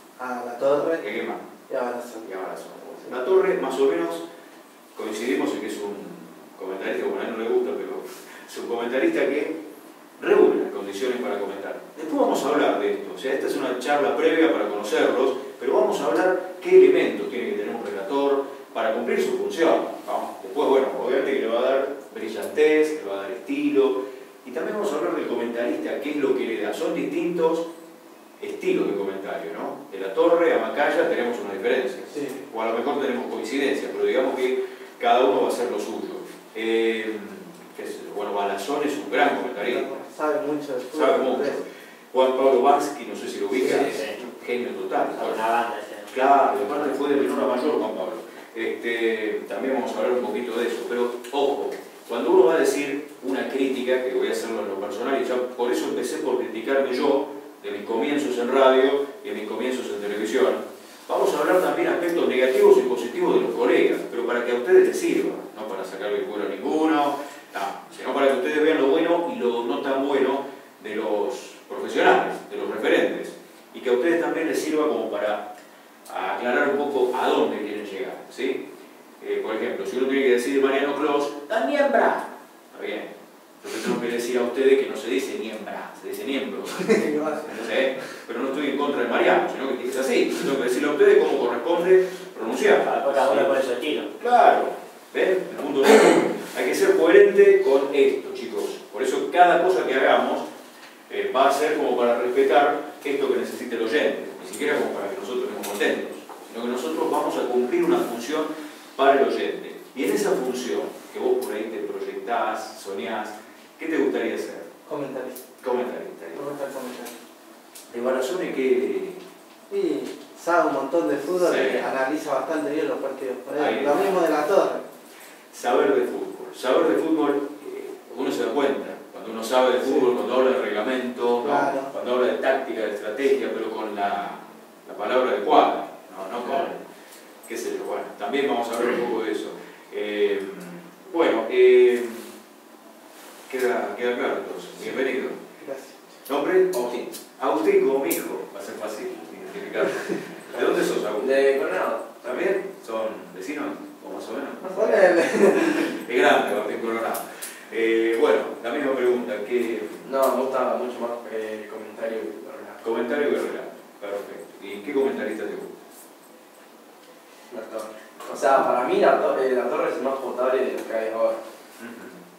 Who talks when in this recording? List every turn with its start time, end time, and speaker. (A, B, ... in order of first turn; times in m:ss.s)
0:00.2-0:01.0 A
0:01.0-0:01.4 B
0:01.7-0:02.3 A
0:02.2-0:04.2 B
0:04.9-0:09.6 B
0:10.2-0:27.7 B
0:28.4-0:40.0 B
0:32.1-0:32.4 A
0:39.4-0:41.6 A
0:40.9-0:45.4 B
0:43.5-0:44.2 C
0:45.2-0:46.2 C
0:46.1-1:15.5 B
1:16.1-1:18.6 B
1:19.2-1:27.0 B
1:26.7-1:27.7 A
1:27.5-1:33.5 B
1:32.8-1:34.1 C
1:34.2-1:40.5 B
1:41.1-1:54.7 B
1:54.8-1:55.4 A
1:55.6-1:56.6 B
1:56.3-1:57.1 A
1:57.9-1:59.2 B
1:59.7-2:04.8 A
2:01.4-2:01.9 B
2:03.6-2:04.2 B
2:05.5-2:16.8 B
2:11.4-2:11.9 A
2:17.4-2:22.3 B
2:23.5-2:25.4 B
2:25.6-2:26.0 A
2:26.2-2:31.5 B
2:31.1-2:32.2 D
2:32.2-2:40.1 B
2:34.6-2:35.9 A
2:40.0-2:42.8 D
2:42.8-2:45.7 B
2:47.5-2:51.4 D
2:51.8-2:52.2 B